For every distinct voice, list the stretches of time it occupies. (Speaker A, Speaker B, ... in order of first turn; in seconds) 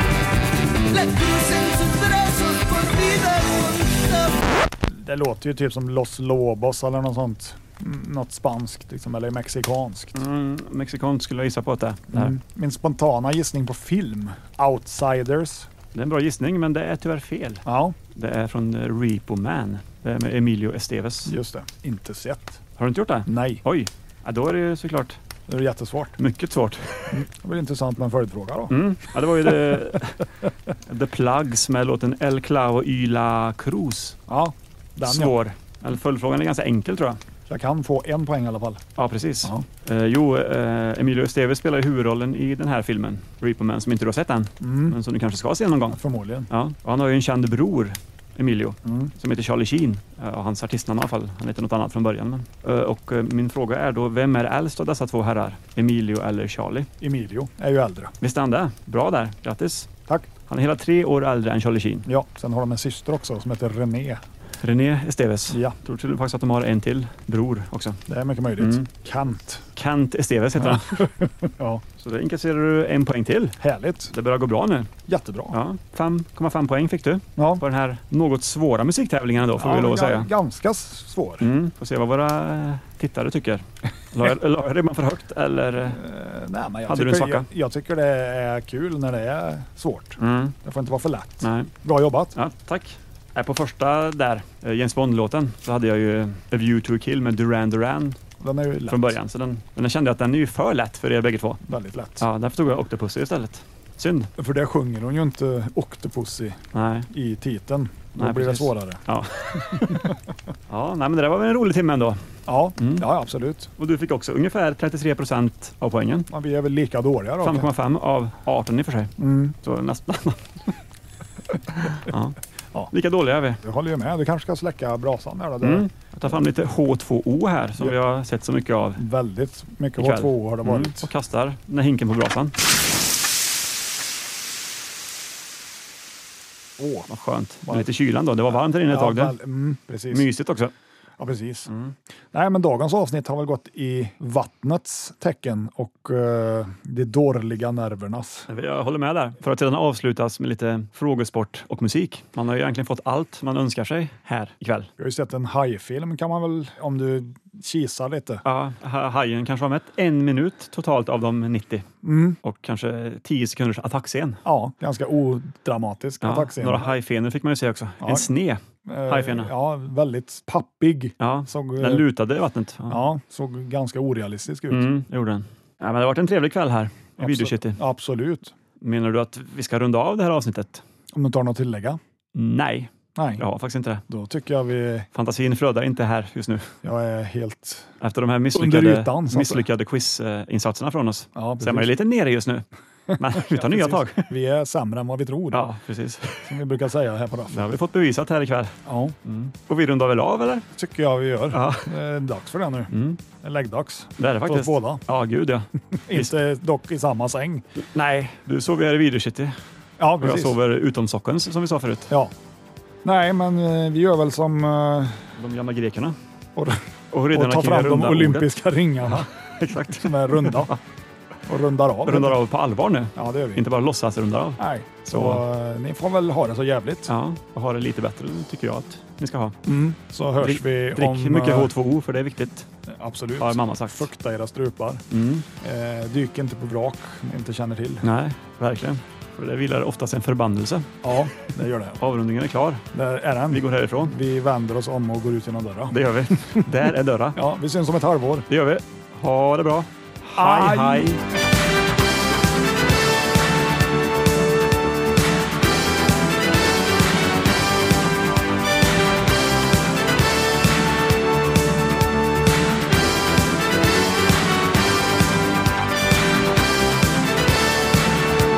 Speaker A: 0.9-4.5
Speaker B: 4.9-10.1, 12.1-15.7, 17.6-17.9, 21.3-22.6, 23.3-23.6, 25.5-26.2, 27.1-28.8, 29.3-29.9, 34.3-35.3, 37.5-38.8, 44.6-45.0, 45.9-46.5, 48.8-49.1, 57.0-58.1, 62.0-64.2, 65.5-65.8, 68.1-69.7, 70.6-71.8, 73.6-74.1, 75.1-75.6, 77.4-77.6, 79.6-81.5, 85.8-92.3, 98.4-99.2, 101.6-102.2, 104.4-106.6, 107.1-109.0, 109.5-110.2, 112.5-113.7, 116.3-117.7, 119.2-119.5, 123.6-125.9, 129.0-131.1, 136.8-137.1, 138.5-140.3, 141.2-141.7, 142.3-148.5, 155.0-158.4, 162.0-162.4, 164.4-166.9, 168.0-168.3, 168.8-172.1, 172.9-174.9, 177.2-178.5, 181.1-182.0, 183.1-183.4, 184.1-185.1, 186.8-187.9, 188.5-189.7, 191.3-191.9, 193.1-195.7, 196.4-197.7, 198.8-199.2, 200.7-205.0, 206.1-207.6, 210.0-210.6, 213.0-215.3, 216.6-219.3, 219.8-220.7, 221.4-222.4, 223.2-223.7, 224.6-227.1, 229.7-231.7, 232.9-235.0, 235.6-238.0, 241.0-242.0, 242.9-246.7, 247.3-248.5, 250.4-251.2
Speaker C: 10.1-12.3, 15.9-21.3, 22.8-25.2, 26.2-27.2, 28.7-30.3, 30.9-34.2, 35.0-37.2, 39.0-56.9, 58.2-59.9, 60.5-62.1, 64.6-68.0, 68.6-68.9, 69.7-71.1, 72.0-73.6, 74.1-74.9, 75.5-80.3, 81.4-86.0, 86.9-87.5, 90.2-90.5, 91.4-91.7, 92.3-98.2, 98.9-101.6, 102.2-104.3, 106.7-107.1, 108.2-110.2, 110.7-113.1, 113.8-116.3, 117.4-120.8, 121.5-122.3, 122.9-123.6, 125.6-129.0, 130.0-132.5, 137.1-139.3, 140.1-140.7, 148.5-154.9, 158.4-161.9, 162.4-164.4, 166.2-169.5, 171.2-173.0, 174.7-177.8, 178.8-180.8, 182.3-184.0, 185.1-186.7, 188.0-192.6, 193.1-194.3, 195.5-196.6, 197.5-200.7, 201.5-201.9, 202.9-203.2, 204.2-206.3, 207.9-209.6, 210.2-212.1, 215.3-216.2, 217.1-218.6, 219.1-220.8, 222.0-225.4, 227.1-229.6, 230.4-232.7, 233.4-234.1, 235.1-235.5, 238.0-242.8, 243.5-244.1, 245.9-247.4, 248.5-251.2